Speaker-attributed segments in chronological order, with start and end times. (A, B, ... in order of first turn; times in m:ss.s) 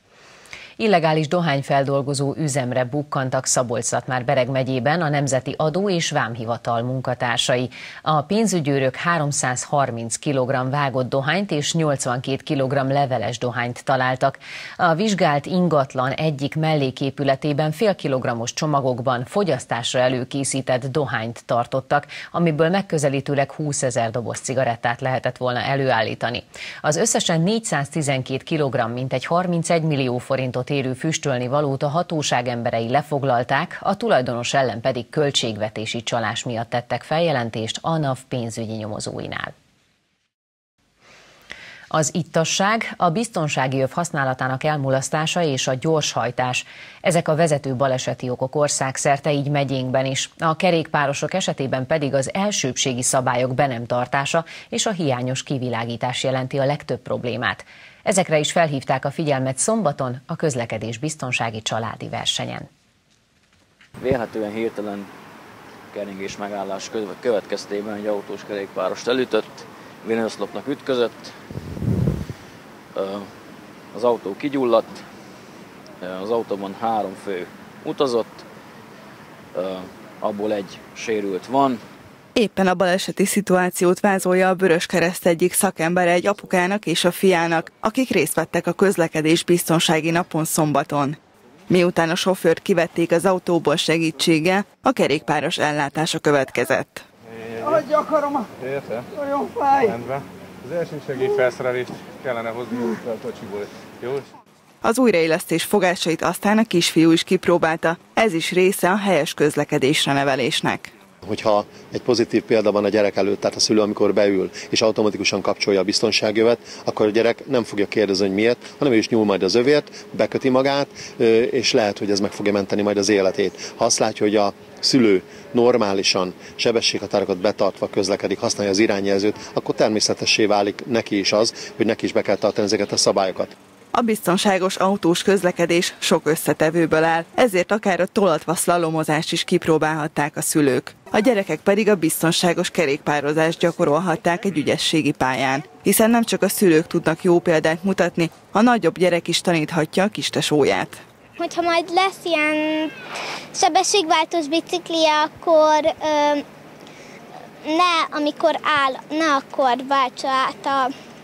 0:00.8-0:39.5 A
0:41.9-1:02.7 A
1:04.0-1:05.1 B
1:05.9-1:11.3 B
1:13.0-1:13.3 B
1:13.9-1:15.0 B
1:16.0-1:18.4 B
1:19.6-1:21.8 B
1:22.4-1:31.2 C
1:31.7-1:37.0 C
1:37.5-1:37.8 D
1:38.6-1:39.1 D
1:39.9-1:44.2 D
1:44.8-1:50.9 C
1:51.2-2:13.5 E
2:13.9-2:31.0 C
2:31.4-2:33.0 F
2:33.5-2:36.4 F
2:37.6-2:40.9 F